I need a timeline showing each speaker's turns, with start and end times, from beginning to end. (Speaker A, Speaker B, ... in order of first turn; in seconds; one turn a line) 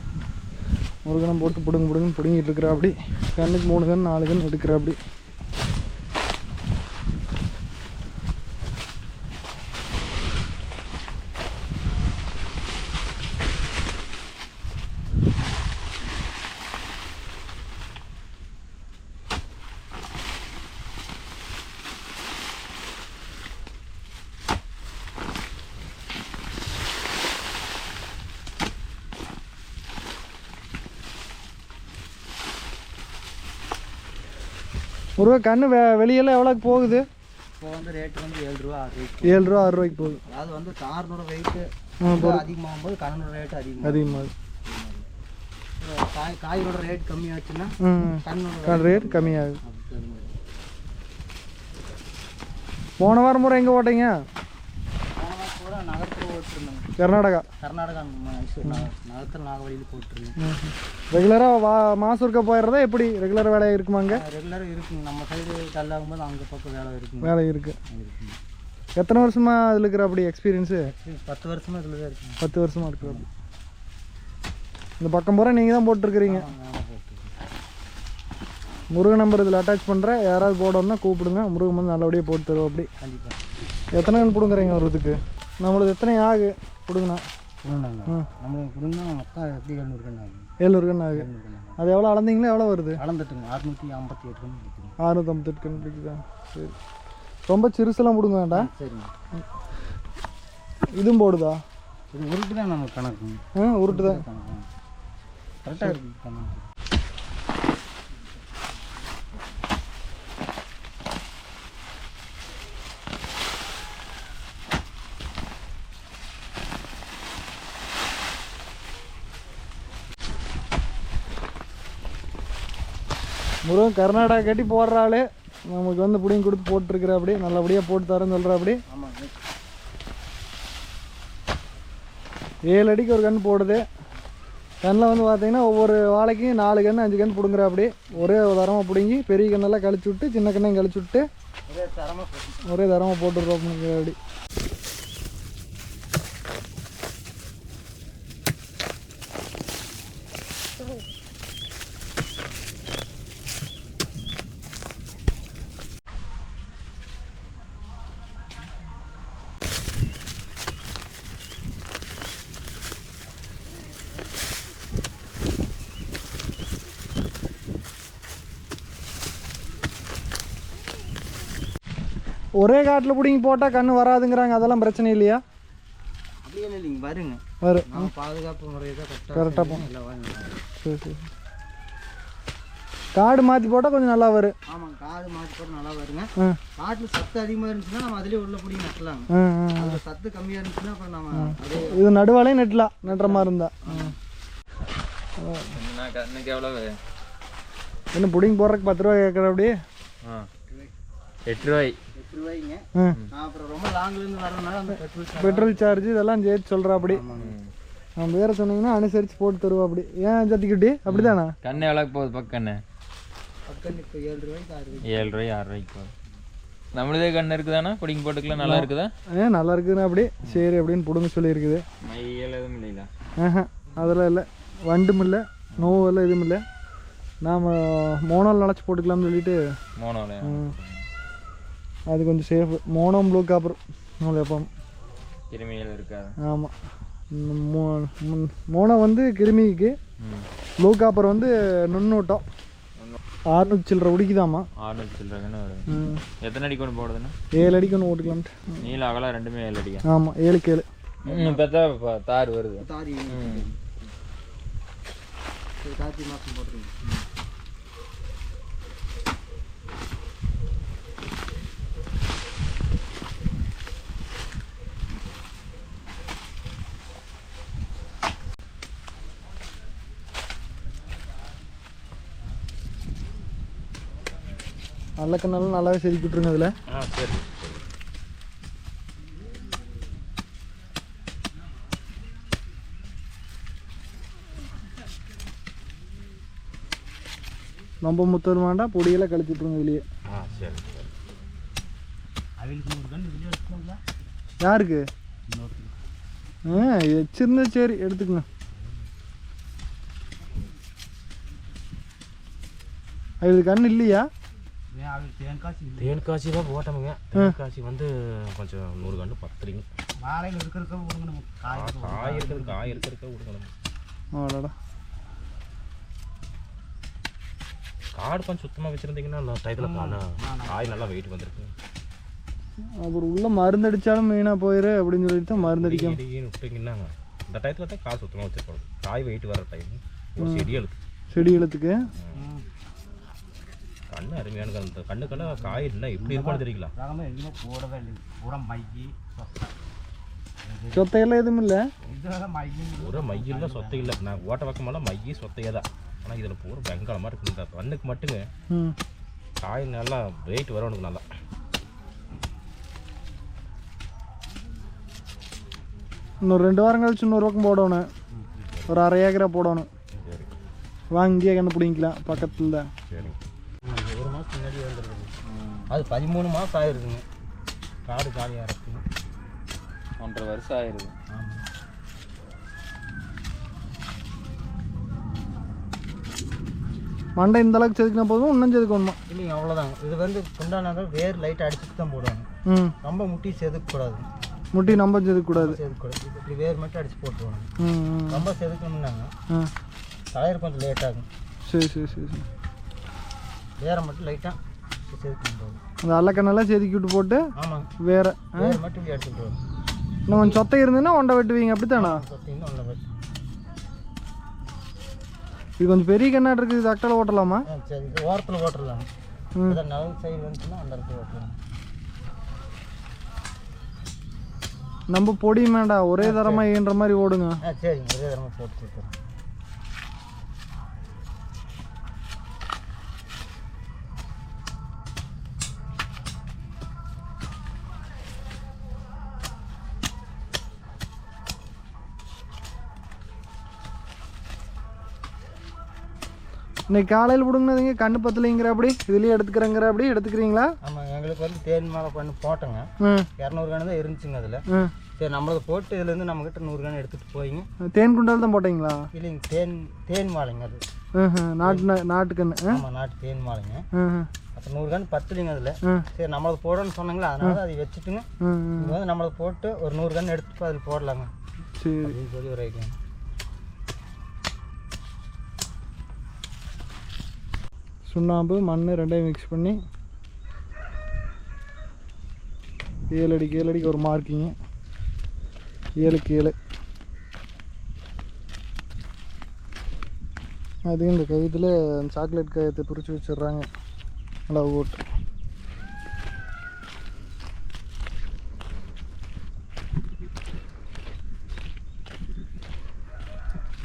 Speaker A: 1.1-5.0
Speaker A: 35.2-37.1
Speaker B: 37.6-39.5
Speaker A: 39.2-40.2
Speaker B: 40.3-45.0
Speaker A: 42.0-42.4
Speaker A: 43.8-44.3
Speaker B: 45.8-50.3
Speaker A: 47.8-49.6
Speaker A: 53.0-54.1
Speaker B: 55.1-56.9
Speaker A: 57.0-57.5
Speaker B: 57.6-60.4
Speaker A: 60.4-64.2
Speaker B: 64.0-67.3
Speaker A: 67.2-67.8
Speaker B: 67.9-68.4
Speaker A: 69.0-70.8
Speaker B: 71.0-72.4
Speaker A: 72.4-73.2
Speaker B: 73.0-73.2
Speaker A: 75.0-76.5
Speaker B: 76.2-77.3
Speaker A: 78.9-82.9
Speaker B: 83.0-83.4
Speaker A: 83.9-87.2
Speaker B: 87.6-90.5
Speaker A: 90.6-93.0
Speaker B: 91.1-91.8
Speaker B: 93.0-95.0
Speaker A: 95.0-96.8
Speaker A: 97.5-98.7
Speaker B: 98.5-99.1
Speaker A: 101.0-101.6
Speaker B: 102.1-104.7
Speaker A: 103.6-104.2
Speaker B: 105.6-106.7
Speaker A: 123.6-128.8
Speaker B: 128.9-129.3
Speaker A: 132.7-133.8
Speaker A: 134.8-141.2
Speaker B: 141.7-142.7
Speaker A: 142.7-144.2
Speaker A: 172.6-175.4
Speaker B: 176.4-180.6
Speaker A: 177.6-178.1
Speaker A: 179.3-179.8
Speaker A: 180.8-181.2
Speaker A: 183.1-184.5
Speaker B: 184.7-192.0
Speaker A: 189.3-190.0
Speaker A: 191.4-194.1
Speaker B: 193.0-194.1
Speaker A: 195.4-195.7
Speaker C: 195.7-197.0
Speaker A: 198.1-199.7
Speaker C: 200.2-200.5
Speaker C: 201.4-202.0
Speaker B: 202.1-206.0
Speaker A: 205.4-207.2
Speaker B: 207.0-207.6
Speaker C: 207.3-207.7
Speaker A: 208.2-211.6
Speaker C: 211.1-212.8
Speaker B: 213.7-215.4
Speaker C: 215.0-216.1
Speaker C: 216.9-219.1
Speaker A: 218.6-221.8
Speaker C: 222.1-223.1
Speaker A: 223.4-226.6
Speaker A: 227.4-229.6
Speaker C: 230.0-231.0
Speaker A: 230.4-230.7
Speaker A: 232.1-234.7
Speaker C: 235.5-236.3
Speaker A: 236.4-236.7
Speaker A: 237.3-239.9
Speaker C: 240.2-240.5
Speaker A: 240.8-242.4
Speaker A: 243.5-244.7
Speaker C: 244.8-245.9
Speaker A: 245.9-246.2
Speaker C: 246.4-247.3
Speaker A: 247.5-248.8
Speaker C: 248.8-250.0
Speaker A: 250.1-250.8
Speaker C: 251.2-253.7
Speaker B: 251.2-251.6
Speaker B: 252.8-253.7
Speaker B: 255.8-256.9
Speaker A: 275.2-276.7
Speaker D: 276.9-277.8
Speaker A: 288.0-290.0
Speaker D: 290.3-291.1
Speaker B: 292.6-294.0
Speaker A: 294.6-295.0
Speaker B: 295.5-296.0
Speaker A: 296.7-298.4
Speaker B: 298.8-299.1
Speaker A: 303.4-304.2
Speaker B: 304.9-306.2
Speaker D: 306.0-309.9
Speaker B: 310.2-313.0
Speaker D: 311.7-313.7
Speaker A: 314.4-314.7
Speaker D: 318.1-321.7
Speaker B: 319.8-321.1
Speaker A: 323.0-326.2
Speaker D: 325.5-330.9
Speaker A: 330.4-330.7
Speaker A: 331.3-332.0
Speaker B: 332.3-332.6
Speaker D: 334.1-336.9
Speaker B: 335.2-339.7
Speaker B: 340.6-341.1
Speaker A: 340.9-341.8
Speaker B: 342.1-344.3
Speaker D: 343.0-348.5
Speaker D: 349.6-351.2
Speaker A: 356.4-358.0
Speaker B: 358.3-358.8
Speaker A: 358.9-359.9
Speaker D: 360.2-360.5
Speaker A: 361.1-362.9
Speaker D: 363.1-363.4
Speaker B: 363.9-365.3
Speaker C: 365.5-365.9
Speaker B: 365.9-367.2
Speaker B: 368.0-369.0
Speaker C: 370.2-371.1
Speaker B: 371.3-371.6
Speaker A: 377.4-379.2
Speaker B: 379.3-382.5
Speaker A: 382.7-382.9
Speaker B: 383.0-384.3
Speaker A: 384.7-385.8
Speaker B: 385.5-387.7
Speaker A: 387.8-388.4
Speaker B: 388.3-389.3
Speaker B: 390.3-391.3
Speaker A: 391.7-392.4
Speaker B: 393.8-395.8
Speaker A: 396.0-397.4
Speaker B: 397.6-397.9
Speaker A: 398.0-398.8
Speaker B: 398.6-399.6
Speaker A: 400.3-402.2
Speaker B: 400.3-400.6
Speaker B: 401.9-403.2
Speaker A: 405.8-407.6
Speaker B: 407.7-409.1
Speaker B: 409.6-411.6
Speaker A: 415.1-417.6
Speaker B: 416.2-416.7
Speaker B: 417.6-419.1
Speaker A: 436.9-440.7
Speaker B: 440.8-444.6
Speaker A: 443.0-443.3
Speaker B: 445.2-447.7
Speaker A: 447.9-449.1
Speaker B: 449.1-450.8
Speaker A: 451.2-452.8
Speaker B: 451.6-451.9
Speaker B: 452.7-453.9
Speaker A: 453.9-454.3
Speaker B: 454.5-458.3
Speaker A: 458.4-458.9
Speaker B: 458.8-461.3
Speaker A: 461.8-462.1
Speaker B: 462.0-462.9
Speaker A: 468.1-469.8
Speaker A: 473.1-474.5
Speaker A: 476.0-476.5
Speaker A: 480.9-483.6
Speaker A: 484.5-485.0